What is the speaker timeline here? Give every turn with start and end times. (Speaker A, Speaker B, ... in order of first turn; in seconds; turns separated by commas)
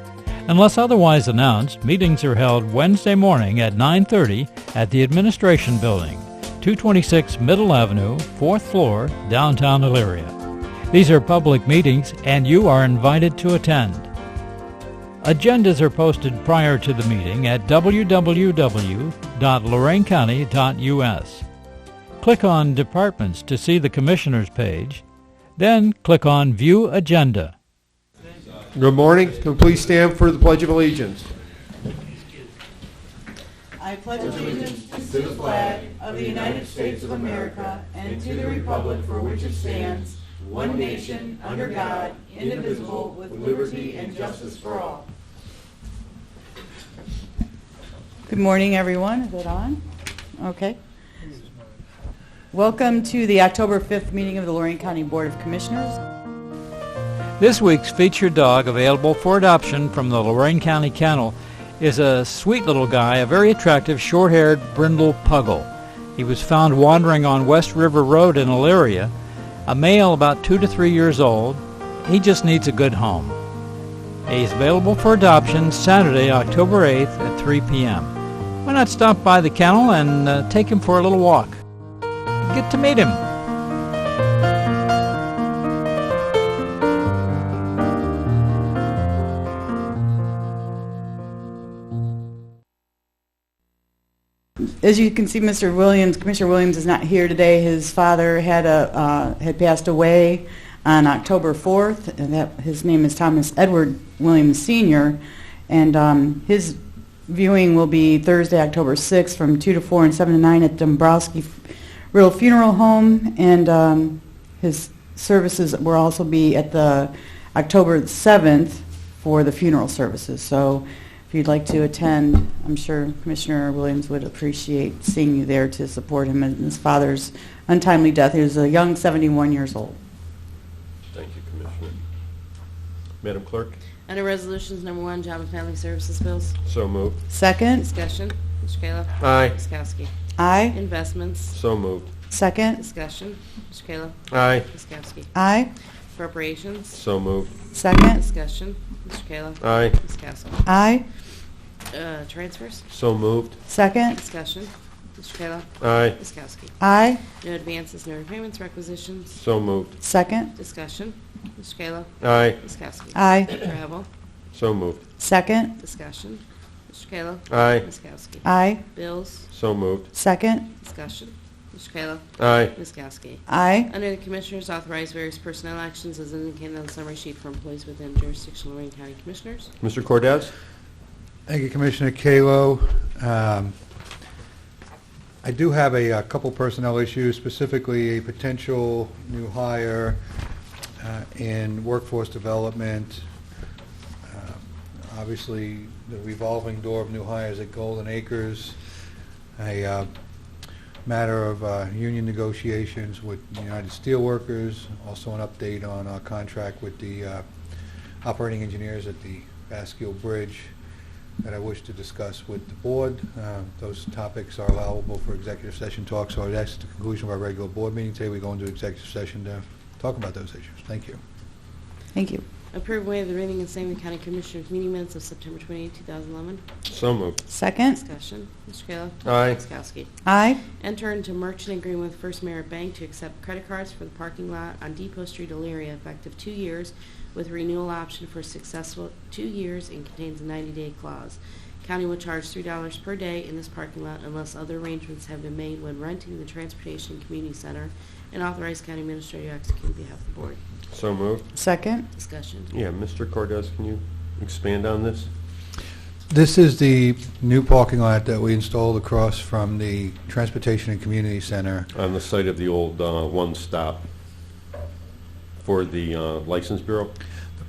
Speaker A: 0.5-10.3, Speaker A: 10.9-14.1, Speaker A: 15.2-21.4, Speaker A: 22.2-25.0, Speaker A: 25.6-27.5, Speaker B: 28.7-31.3, Speaker C: 33.8-45.1, Speaker C: 48.3-49.8, Speaker C: 50.4-50.8, Speaker C: 52.5-56.0, Speaker A: 57.4-69.1, Speaker A: 69.7-73.4, Speaker A: 74.3-78.1, Speaker A: 78.6-81.6, Speaker A: 82.5-83.2, Speaker C: 94.8-130.0, Speaker B: 131.1-132.0, Speaker B: 133.2-133.8, Speaker D: 134.1-136.6, Speaker B: 136.7-137.2, Speaker C: 137.3-137.9, Speaker D: 137.8-140.1, Speaker B: 139.2-139.6, Speaker C: 140.4-140.8, Speaker D: 140.7-141.5, Speaker B: 141.5-142.1, Speaker C: 142.3-142.8, Speaker D: 142.8-145.3, Speaker B: 144.3-144.7, Speaker C: 145.3-145.7, Speaker D: 146.1-147.0, Speaker B: 146.9-147.5, Speaker C: 147.7-148.2, Speaker D: 148.1-150.6, Speaker B: 149.6-150.0, Speaker C: 150.7-151.1, Speaker D: 151.9-152.8, Speaker B: 152.9-153.6, Speaker C: 153.7-154.2, Speaker D: 154.1-156.7, Speaker B: 155.8-156.2, Speaker C: 156.8-157.2, Speaker D: 157.4-159.4, Speaker B: 159.4-160.0, Speaker C: 160.0-160.5, Speaker D: 160.5-164.1, Speaker B: 162.2-162.6, Speaker C: 163.2-163.7, Speaker B: 164.5-165.0, Speaker C: 165.2-165.8, Speaker D: 165.8-169.5, Speaker B: 167.5-167.8, Speaker C: 168.4-168.8, Speaker B: 169.5-170.1, Speaker C: 170.1-170.7, Speaker D: 170.8-179.7, Speaker B: 172.4-172.7, Speaker C: 173.5-173.9, Speaker B: 179.8-180.5, Speaker E: 181.5-183.8, Speaker E: 185.4-190.2, Speaker E: 191.0-193.2, Speaker E: 194.3-198.8, Speaker E: 199.6-200.1, Speaker E: 201.1-207.4, Speaker E: 208.2-210.7, Speaker E: 211.4-221.2, Speaker C: 222.1-222.4, Speaker D: 222.7-226.7, Speaker B: 226.9-227.4, Speaker C: 227.5-228.0, Speaker D: 227.9-230.1, Speaker B: 229.2-229.6, Speaker C: 230.2-230.6, Speaker D: 230.8-250.6, Speaker B: 250.9-251.4, Speaker C: 251.5-252.1, Speaker D: 252.1-252.7, Speaker B: 252.7-255.3, Speaker E: 256.3-261.9, Speaker B: 261.9-264.1, Speaker B: 265.6-267.1